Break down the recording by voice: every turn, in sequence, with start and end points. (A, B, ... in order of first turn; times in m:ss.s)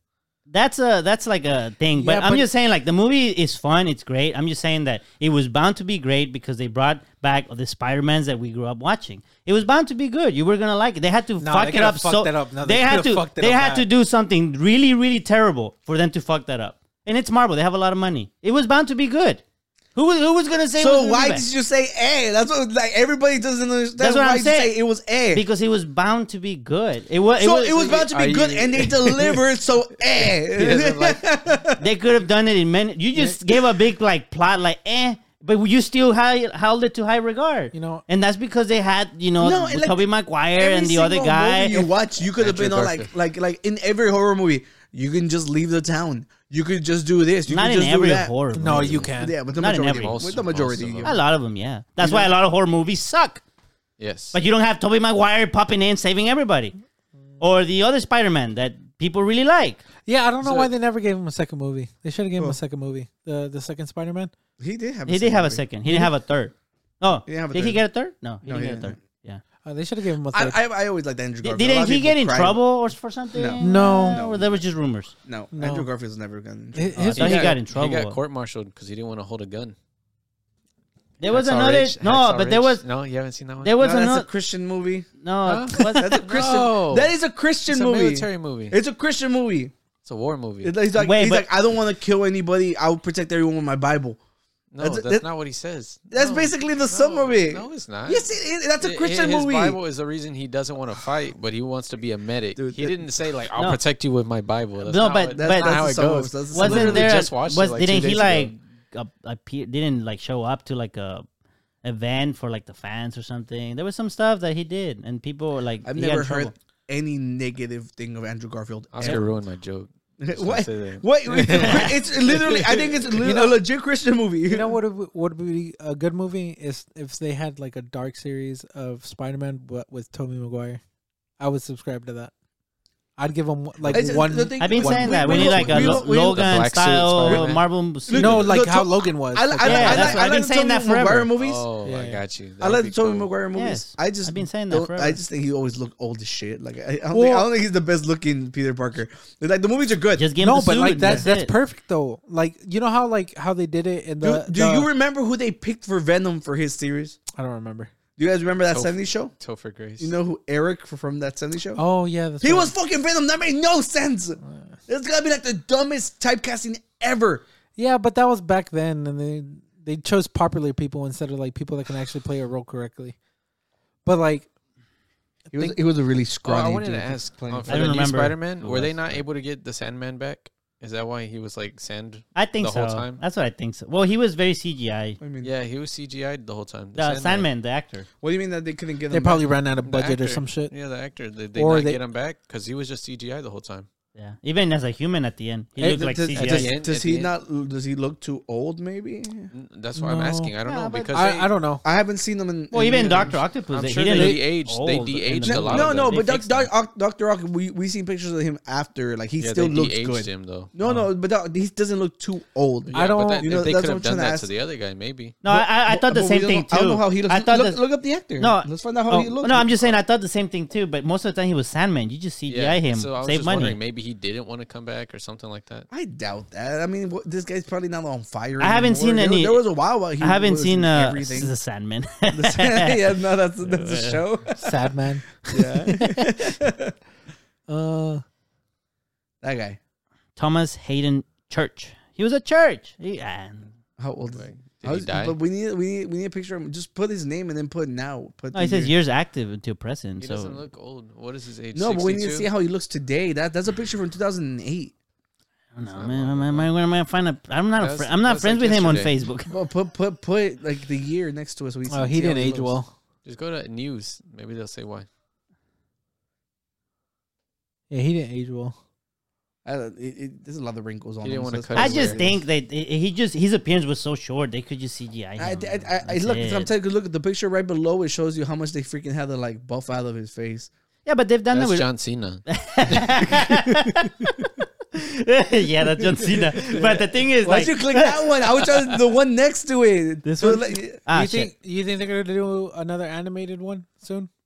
0:00.5-0:19.4 A
0:01.9-0:02.5 B
0:11.4-0:13.9 B
0:19.9-0:21.4 A
0:20.8-0:25.4 C
0:24.0-0:24.7 A
0:25.3-0:28.1 A
0:27.4-0:31.8 C
0:28.0-0:29.4 D
0:30.2-0:31.2 D
0:31.8-0:41.9 A
0:37.7-0:38.0 B
0:39.4-0:51.2 C
0:42.4-0:43.1 D
0:47.5-0:50.4 A
0:48.5-0:49.4 B
0:49.9-0:51.2 D
0:51.0-0:53.4 A
0:52.0-0:52.3 C
0:54.0-0:54.4 D
0:54.3-0:56.8 A
0:57.4-0:59.8 A
1:00.0-1:04.3 B
1:00.4-1:00.7 D
1:04.6-1:05.6 C
1:05.1-1:09.4 A
1:05.8-1:06.1 B
1:07.3-1:07.8 C
1:08.4-1:09.0 C
1:09.6-1:10.6 B
1:10.3-1:12.6 C
1:11.4-1:15.1 A
1:13.3-1:14.6 C
1:13.6-1:14.2 B
1:15.2-1:17.6 C
1:15.5-1:15.9 B
1:16.7-1:17.5 B
1:17.2-1:18.2 A
1:17.2-1:19.8 D
1:21.2-1:22.8 A
1:21.2-1:23.7 D
1:23.6-1:24.3 A
1:23.8-1:25.1 C
1:25.2-1:26.5 A
1:25.4-1:27.1 D
1:25.8-1:29.7 C
1:27.7-1:28.8 D
1:30.0-1:30.7 D
1:30.6-1:34.2 C
1:30.9-1:31.4 A
1:34.7-1:38.2 D
1:34.8-1:35.2 C
1:36.1-1:39.8 C
1:38.8-1:48.6 D
1:42.6-1:43.2 C
1:43.6-1:43.8 A
1:44.8-1:45.9 A
1:45.3-1:47.2 C
1:46.5-1:51.2 A
1:51.8-1:56.5 A
1:55.8-1:59.3 C
1:58.9-2:03.3 D
2:00.2-2:04.8 C
2:03.2-2:03.6 B
2:04.5-2:10.8 B
2:11.4-2:12.3 B
2:13.2-2:15.4 B
2:13.8-2:14.1 D
2:13.9-2:16.6 C
2:14.6-2:18.5 A
2:15.3-2:17.6 D
2:17.2-2:17.5 C
2:18.0-2:21.6 C
2:18.1-2:20.2 B
2:19.6-2:21.3 A
2:21.4-2:23.3 D
2:21.8-2:22.2 B
2:22.6-2:30.2 C
2:23.5-2:25.2 A
2:27.1-2:27.5 B
2:30.2-2:31.5 A
2:30.4-2:34.9 B
2:30.9-2:31.2 C
2:34.2-2:37.2 C
2:37.3-2:37.9 B
2:38.2-2:39.3 C
2:38.7-2:40.1 D
2:40.0-2:41.8 C
2:41.8-2:42.7 B
2:42.4-2:47.4 C
2:44.4-2:44.8 B
2:47.8-2:53.2 B
2:54.0-2:54.5 B
2:55.5-2:55.8 B
2:55.5-2:57.9 C
2:56.4-3:03.2 D
2:57.7-2:59.2 A
3:02.3-3:05.2 A
3:05.2-3:05.5 C
3:05.4-3:07.5 D
3:07.0-3:08.1 A
3:08.2-3:09.5 C
3:09.1-3:10.7 B
3:09.8-3:13.9 D
3:11.5-3:12.0 B
3:14.2-3:16.7 A
3:15.8-3:16.7 B
3:16.3-3:17.3 D
3:16.4-3:19.5 C
3:19.5-3:21.5 D
3:19.9-3:20.6 B
3:20.6-3:21.2 A
3:21.1-3:21.8 B
3:21.8-3:23.4 C
3:22.7-3:26.7 A
3:23.7-3:26.2 D
3:24.1-3:24.4 B
3:25.4-3:34.5 C
3:29.4-3:30.7 D
3:32.8-3:35.4 D
3:32.9-3:33.7 B
3:35.4-3:37.8 A
3:35.4-3:39.9 C
3:38.4-3:43.8 A
3:42.5-3:45.9 D
3:45.9-3:51.5 C
3:48.6-3:49.6 A
3:50.2-3:53.0 A
3:52.3-3:54.7 C
3:53.6-3:54.2 A
3:54.6-3:55.3 B
3:55.5-3:56.9 C
3:55.5-3:56.4 A
3:57.7-3:58.2 B
3:59.4-3:59.8 C
4:00.4-4:03.7 A
4:04.0-4:08.9 C
4:04.3-4:05.4 D
4:08.5-4:10.6 A
4:10.2-4:12.5 D
4:11.7-4:14.9 C
4:15.7-4:19.5 A
4:15.9-4:16.7 D
4:17.8-4:19.1 D
4:19.5-4:22.8 C
4:21.9-4:22.9 B
4:23.2-4:25.1 D
4:27.9-4:28.8 B
4:29.6-4:32.4 C
4:31.2-4:32.4 D
4:31.8-4:36.7 A
4:35.4-4:40.7 C
4:41.0-4:41.9 A
4:41.5-4:43.3 D
4:42.4-4:48.6 A
4:43.3-4:44.3 C
4:46.2-4:51.0 C
4:50.2-4:51.5 A
4:51.1-4:54.3 B